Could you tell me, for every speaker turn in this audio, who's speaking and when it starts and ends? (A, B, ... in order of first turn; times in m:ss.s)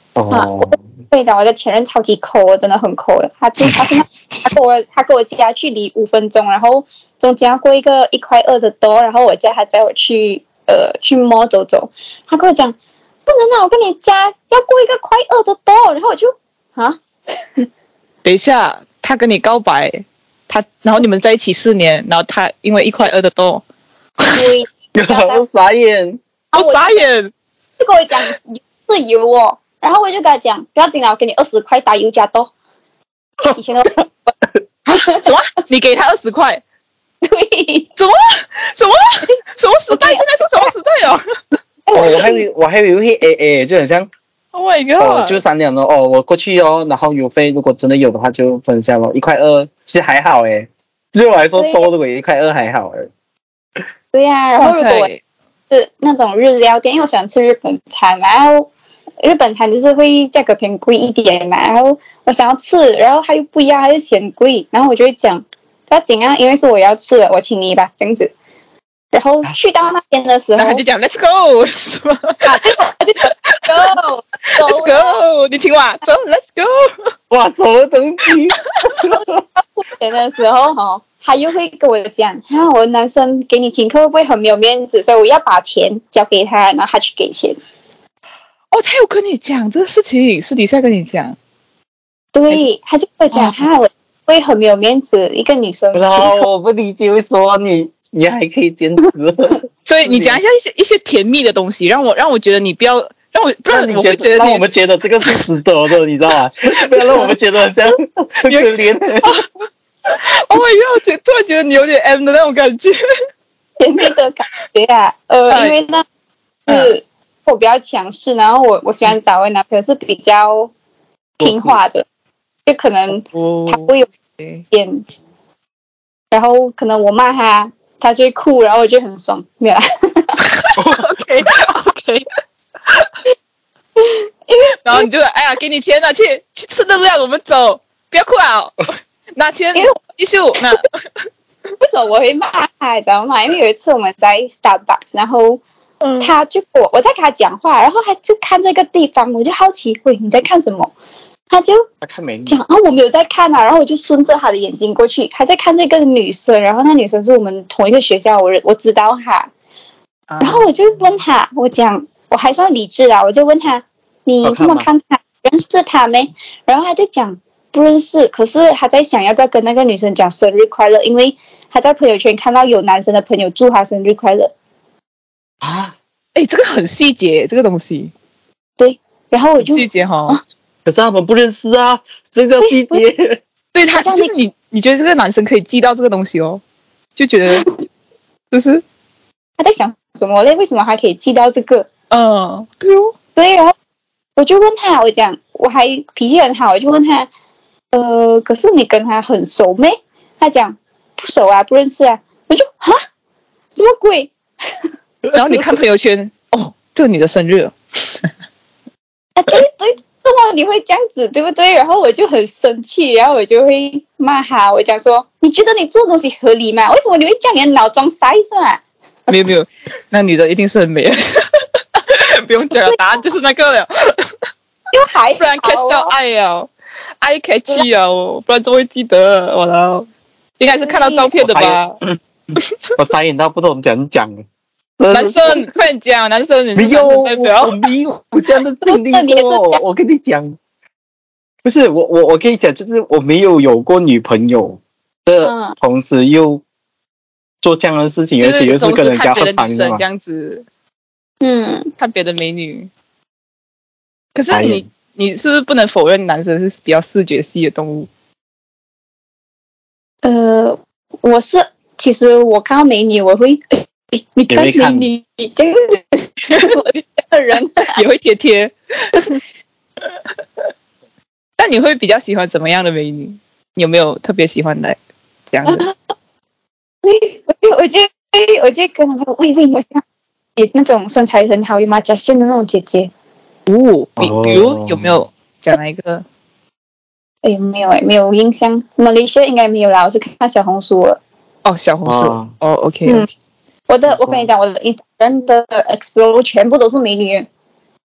0:00.2-0:00.8 A
0:00.3-0:17.0 B
0:18.2-0:23.6 C
0:24.3-0:25.4 B
0:24.9-0:26.2 A
0:26.5-0:27.0 B
0:26.5-0:27.3 C
0:27.8-0:32.5 B
0:33.4-0:34.0 A
0:33.5-0:34.3 B
0:34.9-0:36.6 C
0:34.9-0:35.3 B
0:37.2-0:37.9 B
0:38.0-0:41.2 C
0:39.9-0:40.7 B
0:41.9-0:42.4 B
0:41.9-0:44.1 A
0:44.5-0:45.4 C
0:45.0-0:53.1 A
0:51.6-0:51.9 B
0:54.1-0:55.1 B
0:54.6-0:55.2 C
0:55.7-0:58.7 B
0:59.2-1:08.3 B
1:09.1-1:10.8 B
1:10.6-1:12.8 C
1:12.4-1:15.2 B
1:13.3-1:13.9 C
1:14.6-1:17.1 C
1:17.3-1:19.4 A
1:19.0-1:27.6 B
1:28.7-1:31.4 C
1:32.3-1:36.5 B
1:33.3-1:33.6 C
1:35.9-1:40.4 A
1:39.8-1:44.6 C
1:43.7-1:49.4 A
1:47.0-1:47.3 C
1:48.5-1:49.5 C
1:50.1-1:53.0 C
1:53.8-1:56.0 B
1:55.5-1:55.8 C
1:56.7-1:56.9 C
1:56.7-2:00.7 B
2:01.4-2:01.8 A
2:01.4-2:02.0 B
2:02.6-2:04.1 B
2:03.2-2:04.6 C
2:04.7-2:05.0 B
2:06.3-2:10.4 B
2:10.5-2:12.2 C
2:10.8-2:11.5 A
2:14.0-2:15.0 B
2:14.8-2:20.9 C
2:21.8-2:25.6 B
2:26.0-2:26.3 C
2:26.2-2:30.9 B
2:31.5-2:31.8 B
2:32.0-2:32.6 A
2:32.5-2:39.5 B
2:40.3-2:40.6 C
2:40.4-2:54.5 B
2:44.4-2:44.9 A
2:55.6-2:56.0 A
2:56.3-2:58.1 C
2:58.8-3:00.4 B
2:59.6-3:00.4 C
3:00.8-3:03.4 A
3:02.6-3:03.0 B
3:03.7-3:06.6 C
3:03.9-3:04.3 B
3:07.2-3:07.7 C
3:08.5-3:08.8 C
3:09.6-3:11.9 B
3:12.1-3:13.1 C
3:13.4-3:13.7 B
3:14.4-3:17.3 B
3:17.9-3:23.0 B
3:23.7-3:24.3 B
3:25.3-3:28.3 C
3:29.4-3:38.8 B
3:39.3-3:44.3 C
3:42.8-3:43.2 B
3:44.9-3:46.1 B
3:45.4-3:46.7 C
3:47.2-3:50.1 C
3:50.6-3:52.0 C
3:50.8-3:51.3 B
3:51.4-3:52.2 A
3:53.0-3:54.4 A
3:55.0-3:55.7 A
3:55.1-3:57.8 C
3:56.8-4:00.6 A
3:58.8-3:59.8 B
4:01.6-4:06.6 A
4:05.4-4:05.8 B
4:07.6-4:10.0 A
4:08.4-4:10.6 C
4:11.4-4:11.9 B
4:12.0-4:12.9 C
4:14.3-4:18.1 C
4:14.5-4:14.8 A
4:20.2-4:27.9 B
4:24.5-4:25.1 A
4:26.5-4:26.8 C
4:27.9-4:29.3 C
4:31.6-4:35.0 C
4:35.5-4:35.9 C
4:35.6-4:35.9 B
4:37.0-4:40.0 B
4:40.6-4:43.1 B
4:43.7-4:46.2 C
4:44.2-4:45.2 A
4:47.4-4:51.2 B
4:51.6-4:53.3 C
4:52.0-4:52.5 A
4:53.9-4:57.5 B
4:54.1-4:54.5 A